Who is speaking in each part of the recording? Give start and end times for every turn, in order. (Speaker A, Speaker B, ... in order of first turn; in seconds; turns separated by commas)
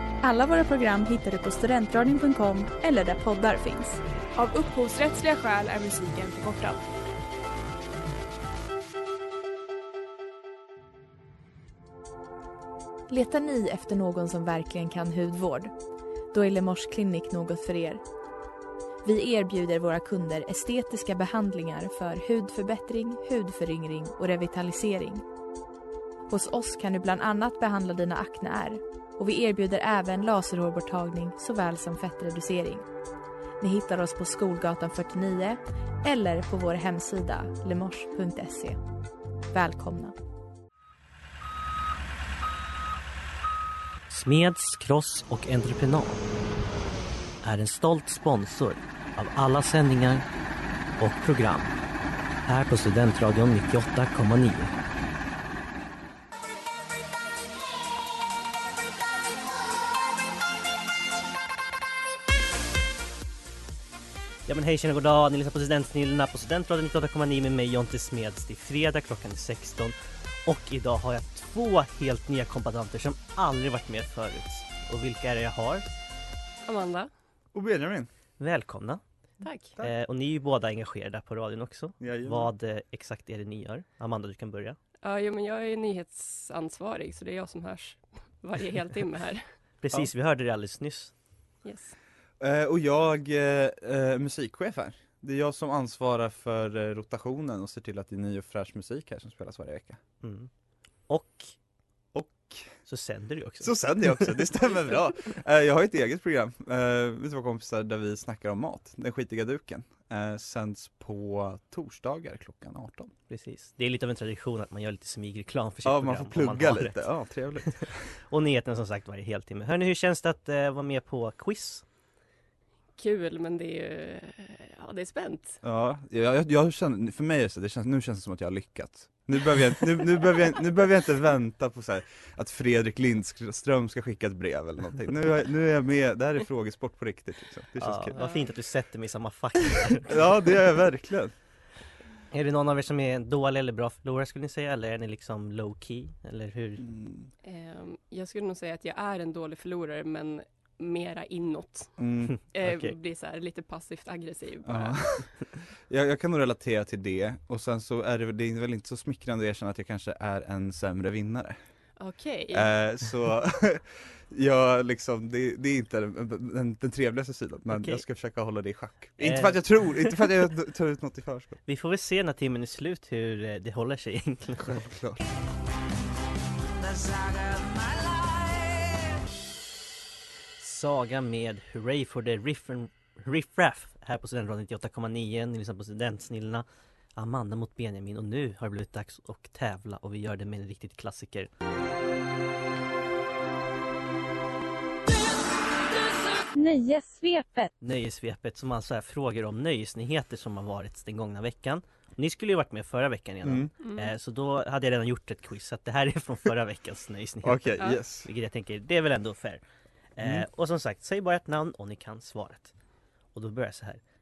Speaker A: 0.2-4.0, Speaker B: 4.3-6.9, Speaker A: 13.1-15.7, Speaker A: 16.3-18.0, Speaker A: 19.0-25.2, Speaker A: 26.3-32.9, Speaker A: 33.6-38.8, Speaker A: 39.5-40.1, Speaker C: 44.1-46.2, Speaker C: 47.4-50.2, Speaker C: 51.0-51.8, Speaker C: 52.4-54.7, Speaker C: 64.5-75.8, Speaker D: 76.7-77.1, Speaker E: 77.5-78.1, Speaker C: 78.4-79.0, Speaker D: 79.4-79.7, Speaker C: 79.8-84.8, Speaker E: 82.0-82.5, Speaker D: 85.0-89.4, Speaker C: 89.8-91.1, Speaker D: 91.6-91.9, Speaker E: 92.4-100.0, Speaker C: 100.2-100.5, Speaker C: 101.1-101.5, Speaker E: 102.1-102.7, Speaker C: 102.8-104.3, Speaker E: 103.6-113.1, Speaker C: 113.3-117.0, Speaker E: 115.8-118.1, Speaker C: 118.3-121.8, Speaker D: 123.0-125.6, Speaker E: 125.6-138.2, Speaker C: 137.8-140.3, Speaker D: 138.1-138.5, Speaker E: 139.9-141.3, Speaker C: 142.3-146.8, Speaker E: 146.8-147.3, Speaker D: 147.4-151.9, Speaker E: 152.0-152.3, Speaker C: 152.3-152.9, Speaker D: 152.5-155.0, Speaker E: 154.6-155.3, Speaker E: 155.9-161.6, Speaker D: 162.0-162.7, Speaker E: 162.5-171.6, Speaker C: 167.7-168.0, Speaker C: 169.2-170.3, Speaker C: 171.7-174.8, Speaker E: 174.6-175.2, Speaker F: 176.9-178.7, Speaker C: 180.6-191.5, Speaker F: 196.3-197.7, Speaker C: 197.8-209.6, Speaker E: 203.4-203.7, Speaker D: 203.8-204.1, Speaker E: 207.4-208.3, Speaker C: 210.2-212.7, Speaker E: 210.2-210.4, Speaker C: 213.3-214.0